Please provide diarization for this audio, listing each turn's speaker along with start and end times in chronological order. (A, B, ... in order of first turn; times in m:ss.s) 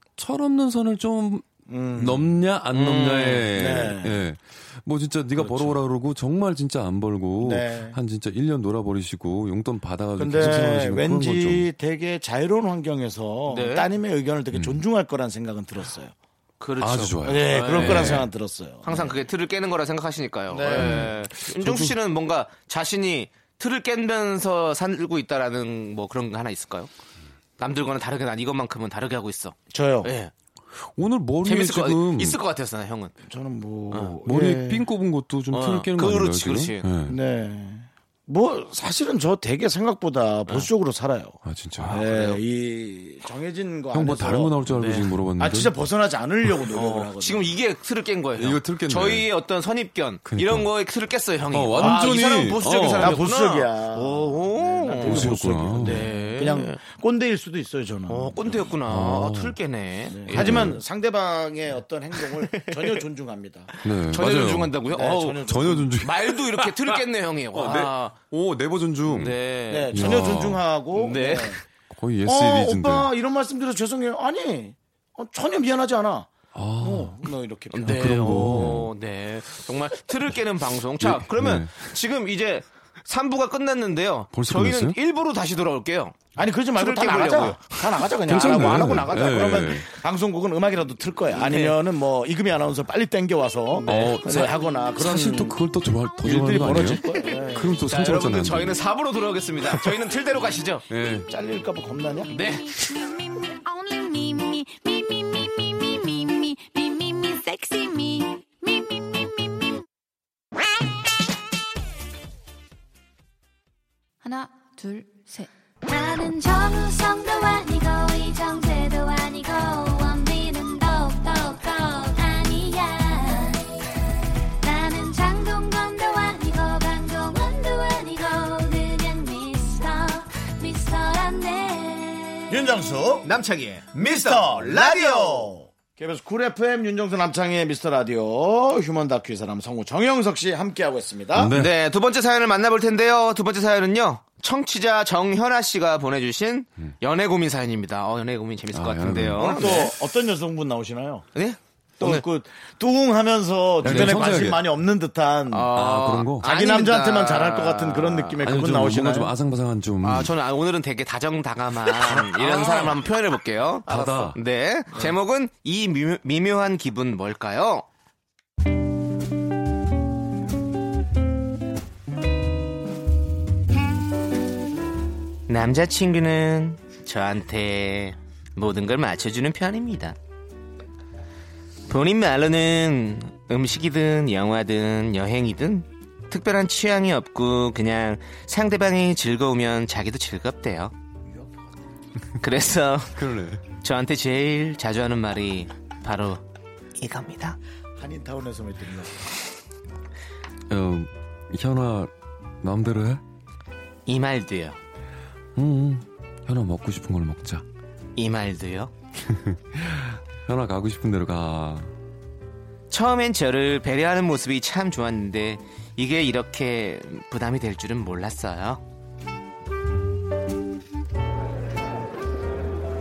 0:00.1-0:11.7 A
0:01.7-0:02.3 B
0:02.7-0:03.5 C
0:03.5-0:04.3 B
0:05.4-0:05.8 B
0:07.4-0:08.0 B
0:10.2-0:16.1 B
0:13.5-0:13.9 C
0:14.5-0:14.8 A
0:16.6-0:18.2 C
0:16.8-0:18.3 A
0:17.2-0:19.2 B
0:18.8-0:26.9 C
0:20.5-0:21.1 B
0:20.7-0:22.0 A
0:27.6-0:30.3 C
0:29.7-0:30.1 B
0:30.8-0:32.4 A
0:31.4-0:33.1 C
0:33.2-0:34.9 B
0:33.9-0:34.2 C
0:34.2-0:37.2 A
0:35.5-0:36.9 C
0:37.1-0:41.4 B
0:41.4-0:42.0 A
0:41.8-0:42.4 C
0:41.9-0:44.6 B
0:43.9-0:45.8 A
0:44.7-0:45.1 C
0:45.4-0:47.5 B
0:46.7-0:56.8 C
0:48.4-0:49.3 A
0:50.2-0:50.7 A
0:51.5-0:53.2 A
0:51.8-0:52.2 B
0:53.0-0:58.6 B
0:55.0-0:56.1 A
0:58.1-1:00.8 C
0:58.8-0:59.6 A
1:00.1-1:03.7 B
1:00.3-1:00.8 A
1:02.2-1:03.0 C
1:03.8-1:04.8 A
1:03.9-1:08.2 C
1:04.9-1:05.9 B
1:05.4-1:07.0 A
1:07.5-1:09.4 A
1:09.1-1:10.2 C
1:09.7-1:11.6 B
1:09.9-1:10.6 A
1:11.0-1:11.6 C
1:11.9-1:13.1 A
1:12.2-1:18.7 B
1:16.5-1:17.3 A
1:17.7-1:26.2 C
1:17.8-1:18.9 A
1:21.0-1:21.9 A
1:24.3-1:25.0 A
1:26.4-1:35.6 B
1:26.8-1:27.8 C
1:28.2-1:29.9 A
1:31.4-1:31.8 C
1:33.9-1:34.1 C
1:33.9-1:38.8 A
1:36.2-1:37.8 B
1:37.8-1:40.8 C
1:40.9-1:41.3 A
1:41.3-1:42.3 B
1:42.3-1:42.8 C
1:42.4-1:49.8 D
1:54.2-2:03.7 D
2:04.6-2:12.6 D
2:12.5-2:13.3 B
2:13.2-2:15.5 C
2:14.0-2:21.5 B
2:21.3-2:21.8 A
2:21.5-2:29.9 C
2:28.7-2:29.8 A
2:29.4-2:31.3 B
2:31.4-2:32.2 C
2:32.0-2:35.7 B
2:33.8-2:34.7 A
2:33.8-2:34.2 C
2:35.5-2:38.4 C
2:35.7-2:36.5 A
2:36.4-2:39.3 B
2:38.4-2:40.3 A
2:40.0-2:47.9 C
2:41.9-2:43.0 A
2:43.9-2:44.4 A
2:55.5-3:00.2 C
3:01.9-3:10.9 C
3:11.3-3:11.5 B
3:12.4-3:13.1 C
3:13.2-3:13.6 A
3:13.7-3:16.4 C
3:17.0-3:17.6 C
3:18.0-3:19.4 B
3:20.7-3:23.2 A
3:24.1-3:24.8 C
3:25.6-3:27.6 A
3:28.2-3:28.9 C
3:29.2-3:31.9 A
3:32.9-3:38.8 C